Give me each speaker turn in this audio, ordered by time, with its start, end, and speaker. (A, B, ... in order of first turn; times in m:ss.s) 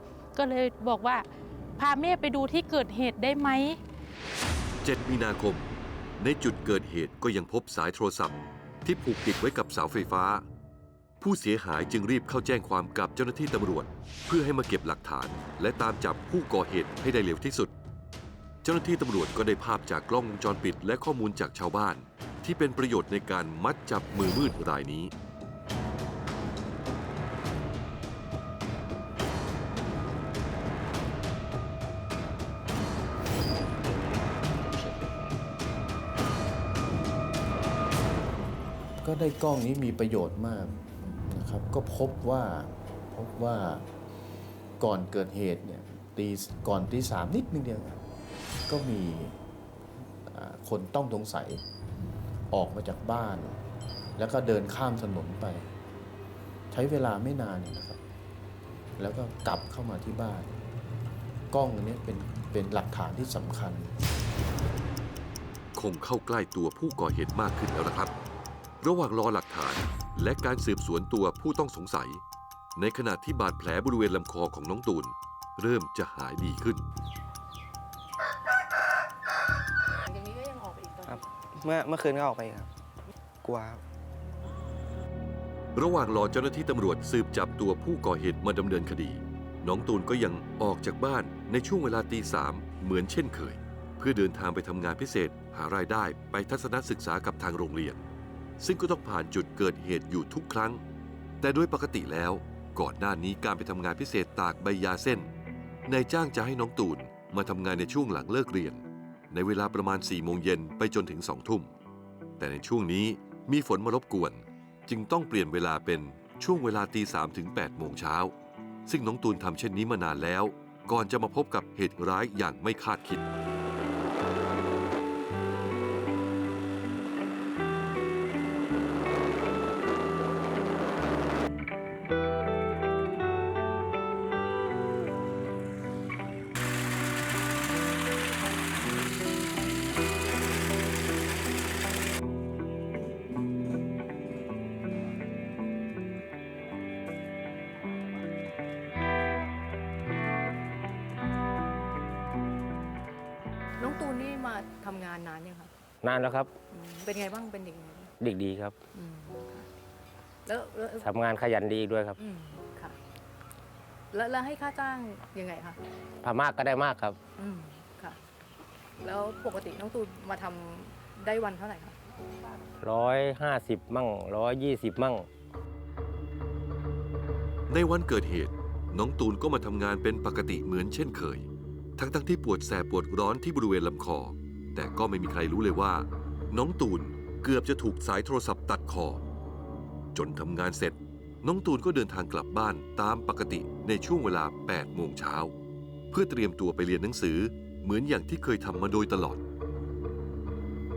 0:00.3-0:01.3 A
0:01.8-0:03.8 A
0:04.8-0:05.7 B
0:06.2-0:10.4 B
0:11.2-0:17.7 B
0:18.6-0:25.1 B
0:33.9-0:35.4 C
0:39.0-0:43.8 D
0:44.8-0:48.0 D
0:48.7-0:49.4 D
0:50.3-0:51.6 D
0:52.5-0:53.6 D
0:54.2-0:55.7 D
0:56.7-0:58.0 D
0:59.0-1:00.6 D
1:01.5-1:03.9 D
1:05.7-1:08.1 B
1:08.8-1:12.2 B
1:12.8-1:16.8 B
1:20.1-1:21.2 E
1:21.0-1:22.7 F
1:23.4-1:23.8 F
1:25.7-1:38.0 B
1:38.6-1:40.8 B
1:41.4-1:45.3 B
1:45.8-1:51.7 B
1:52.4-1:58.3 B
1:58.9-2:03.2 B
2:33.8-2:35.7 E
2:36.0-2:36.5 C
2:36.7-2:38.1 E
2:38.2-2:38.8 C
2:38.9-2:39.7 E
2:40.4-2:41.1 E
2:40.9-2:42.2 C
2:42.2-2:43.0 E
2:44.1-2:45.8 E
2:46.2-2:47.2 C
2:47.4-2:48.2 E
2:49.0-2:52.0 E
2:52.8-2:55.3 C
2:57.7-3:09.2 B
3:10.1-3:15.5 B
3:16.1-3:19.4 B